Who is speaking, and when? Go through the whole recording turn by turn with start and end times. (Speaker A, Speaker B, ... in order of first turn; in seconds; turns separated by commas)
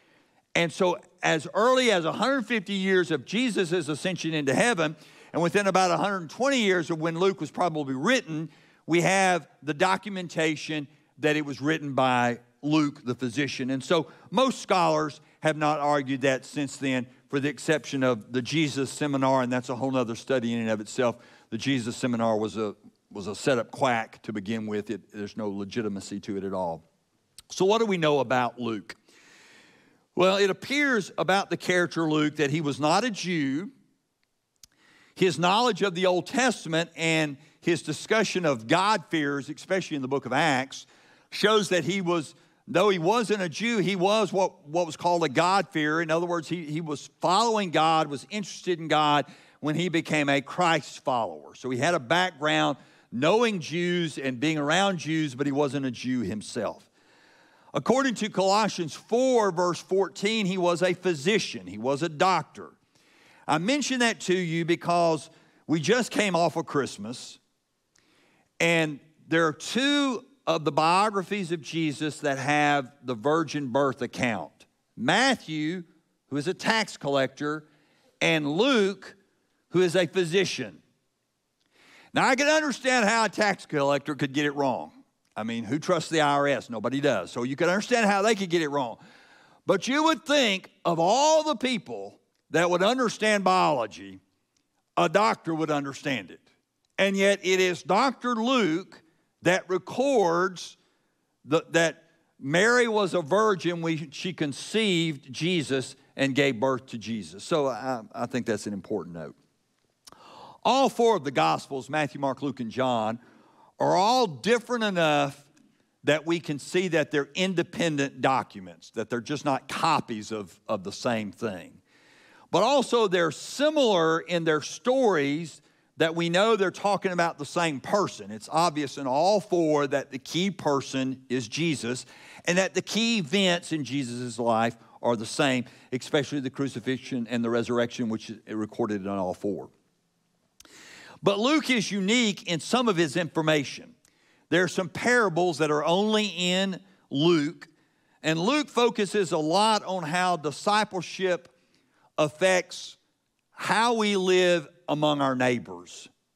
Speaker A: 0.6-26.8, Speaker A: 27.5-29.0, Speaker A: 30.1-33.7, Speaker A: 35.2-56.9, Speaker A: 57.7-62.8, Speaker A: 63.5-67.4, Speaker A: 68.6-77.7, Speaker A: 78.2-79.2, Speaker A: 79.7-80.8, Speaker A: 82.1-89.0, Speaker A: 89.7-94.2, Speaker A: 95.0-96.4, Speaker A: 97.0-100.8, Speaker A: 101.5-109.4, Speaker A: 110.6-113.2, Speaker A: 113.8-115.5, Speaker A: 116.0-121.8, Speaker A: 122.5-139.7, Speaker A: 141.2-143.9, Speaker A: 144.5-147.7, Speaker A: 148.2-151.5, Speaker A: 152.2-153.0, Speaker A: 153.6-156.1